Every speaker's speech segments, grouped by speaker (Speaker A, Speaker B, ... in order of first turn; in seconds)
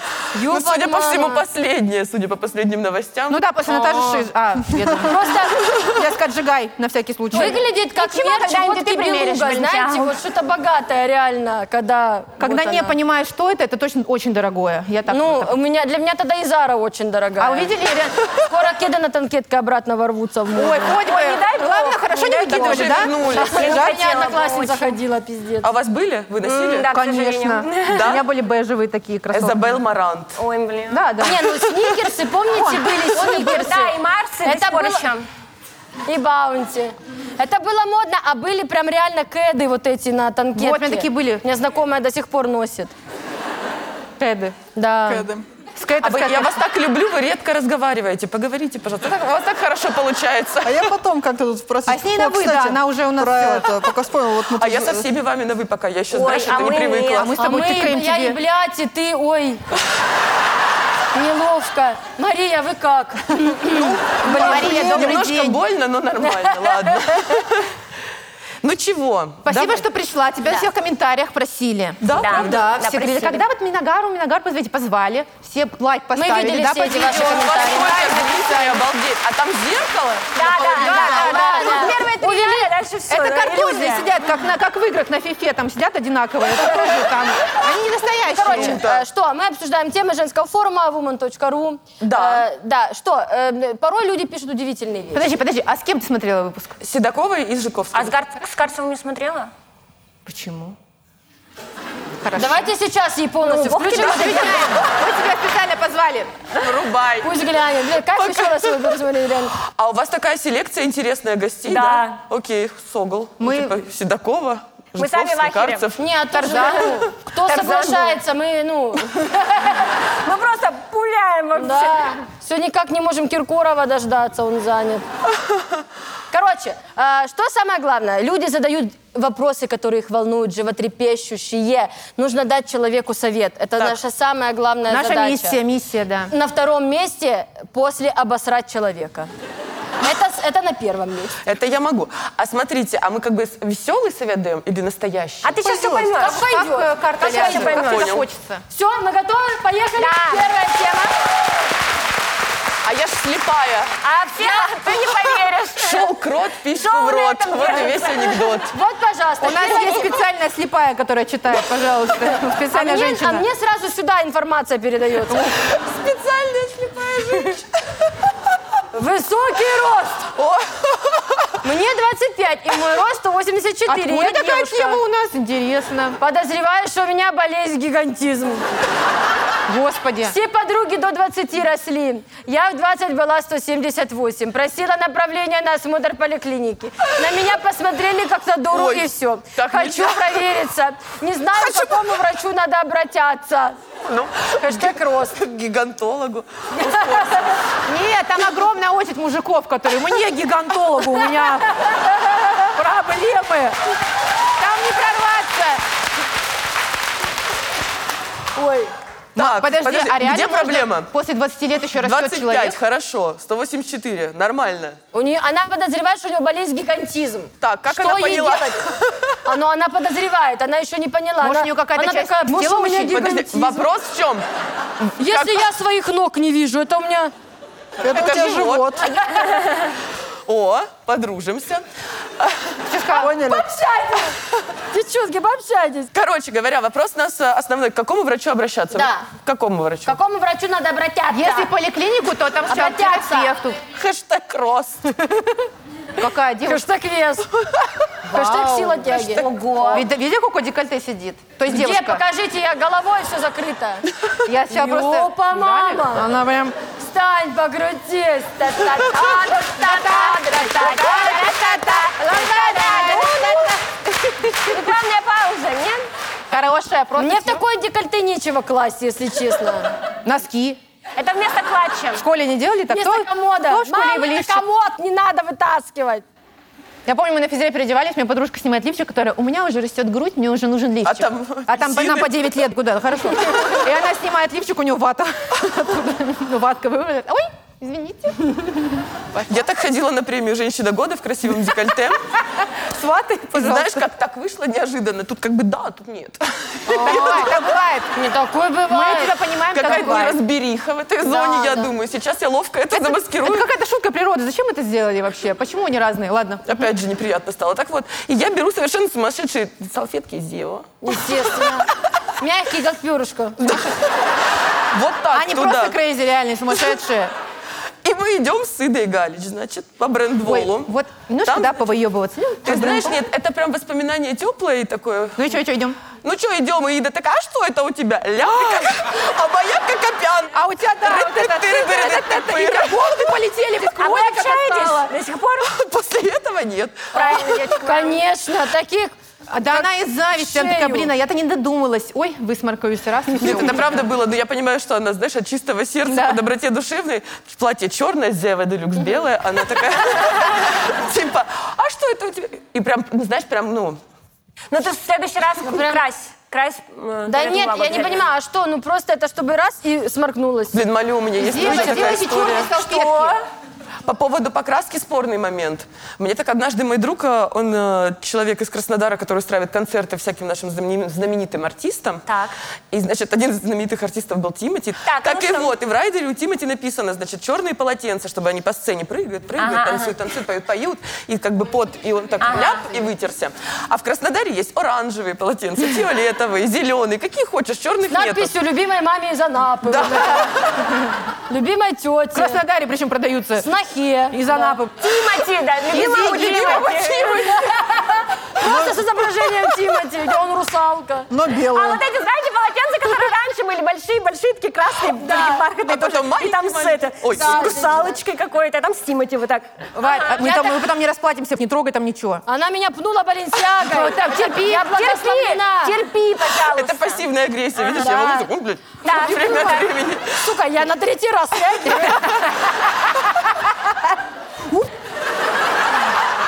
Speaker A: 0.3-1.4, 3.7-4.3, 5.0-6.0, 7.3-13.0, 15.1-17.7, 18.5-21.0, 22.9-25.7, 31.2-35.1, 36.1-42.9, 44.7-45.3, 57.4-59.6, 61.1-65.2, 66.2-67.4, 76.1-78.1, 80.5-82.7, 88.3-95.3, 102.3-104.6, 107.2-109.5, 116.0-119.7, 121.5-125.0, 126.3-135.6, 136.3-139.3, 140.0-141.3, 146.2-147.9, 148.7-151.1, 154.4-155.0, 158.7-160.2, 162.7-165.6, 168.9-170.2, 171.6-175.0, 176.2-178.8, 180.2-193.8, 194.6-195.4, 196.7-197.6, 201.3-203.7, 208.5-208.9, 215.1-218.8, 219.4-223.5, 225.2-227.3, 233.1-234.4, 234.9-236.1, 238.9-239.3, 240.0-241.7, 242.7-243.6, 246.6-247.5, 248.3-250.0, 251.7-254.1, 254.7-256.3, 256.9-261.5, 262.3-263.8, 267.2-269.9, 272.9-276.2, 296.9-297.6, 298.1-300.2, 301.2-301.9, 311.0-313.8, 337.1-339.1, 339.7-341.1, 355.6-356.0, 357.3-360.8, 388.1-390.5, 391.5-392.6, 393.6-394.8, 397.4-401.3, 405.2-405.6, 407.3-408.1, 412.4-416.0, 417.8-418.5, 419.0-422.6
Speaker B: 0.5-3.4, 22.4-23.7, 25.6-26.9, 27.8-28.2, 29.3-30.4, 46.0-50.9, 54.6-57.3, 64.3-67.8, 68.6-69.8, 72.0-72.7, 77.0-81.0, 88.4-89.0, 92.0-92.5, 96.8-98.2, 106.5-107.4, 108.1-108.8, 109.7-116.1, 141.4-145.6, 147.2-148.2, 152.8-153.9, 155.8-158.7, 165.5-167.7, 170.3-171.6, 188.7-190.4, 191.6-192.0, 194.1-197.6, 209.3-211.1, 211.9-215.0, 217.6-219.3, 222.9-224.4, 225.0-225.7, 228.1-229.0, 230.4-231.8, 232.4-232.9, 236.1-240.2, 243.8-245.1, 249.1-250.0, 281.0-282.5, 283.5-283.8, 289.5-292.2, 293.5-297.7, 299.7-303.7, 306.6-311.7, 313.6-314.1, 314.9-316.0, 318.0-320.9, 321.4-321.8, 322.6-325.5, 326.1-333.4, 335.6-337.5, 343.4-354.0, 360.7-362.7, 364.0-372.2, 372.9-388.5, 389.9-390.9, 396.3-397.5, 405.8-408.1, 416.6-420.5
Speaker C: 3.3-5.3, 5.8-7.6, 12.4-15.5, 17.4-18.2, 20.5-24.9, 26.9-29.8, 30.9-31.9, 32.5-33.7, 40.5-41.4, 44.2-44.5, 45.8-46.6, 51.9-53.8, 56.7-58.4, 64.2-65.6, 69.4-78.8, 80.5-82.1, 83.1-88.8, 95.1-96.8, 100.2-100.8, 102.2-102.7, 103.7-106.3, 113.4-113.7, 116.3-117.1, 134.9-136.3, 145.6-148.6, 159.4-163.4, 173.9-176.2, 179.7-180.3, 197.8-201.7, 202.8-203.7, 204.6-205.8, 209.3-212.8, 221.4-223.8, 232.9-233.4, 241.3-243.8, 246.2-246.8, 248.3-249.0, 249.9-252.2, 254.4-256.7, 259.8-263.5, 266.5-267.6, 270.2-270.8, 272.1-274.6, 277.1-289.6, 292.8-294.1, 297.0-298.1, 298.9-300.4, 302.9-306.9, 315.3-317.3, 320.4-323.2, 325.4-326.0, 328.5-328.9, 330.5-335.0, 337.2-338.1, 339.5-344.0, 346.1-346.4, 361.4-363.4, 392.3-393.7, 394.3-394.9, 395.9-397.3, 409.9-412.4, 413.8-414.9
Speaker D: 7.3-10.1, 21.0-24.6, 26.5-28.1, 30.4-31.1, 33.2-35.3, 56.1-57.3, 72.1-73.5, 80.3-84.1, 86.6-87.1, 97.9-99.5, 103.4-104.7, 111.7-112.2, 115.0-115.9, 117.5-118.1, 120.2-122.2, 145.4-146.3, 147.2-148.2, 150.0-150.5, 154.0-156.1, 156.7-158.6, 229.4-229.7, 249.3-250.1, 260.7-263.8, 264.5-266.1, 271.1-272.2, 334.0-335.7, 337.1-338.1, 354.7-358.2, 361.6-363.4, 372.3-372.5, 375.0-375.7, 379.6-380.1, 382.4-382.9, 395.0-397.5, 401.7-410.7, 414.7-417.2, 419.0-419.9
Speaker E: 45.0-45.4, 50.6-55.1, 228.0-229.2, 233.2-233.7, 398.6-399.1, 401.3-402.0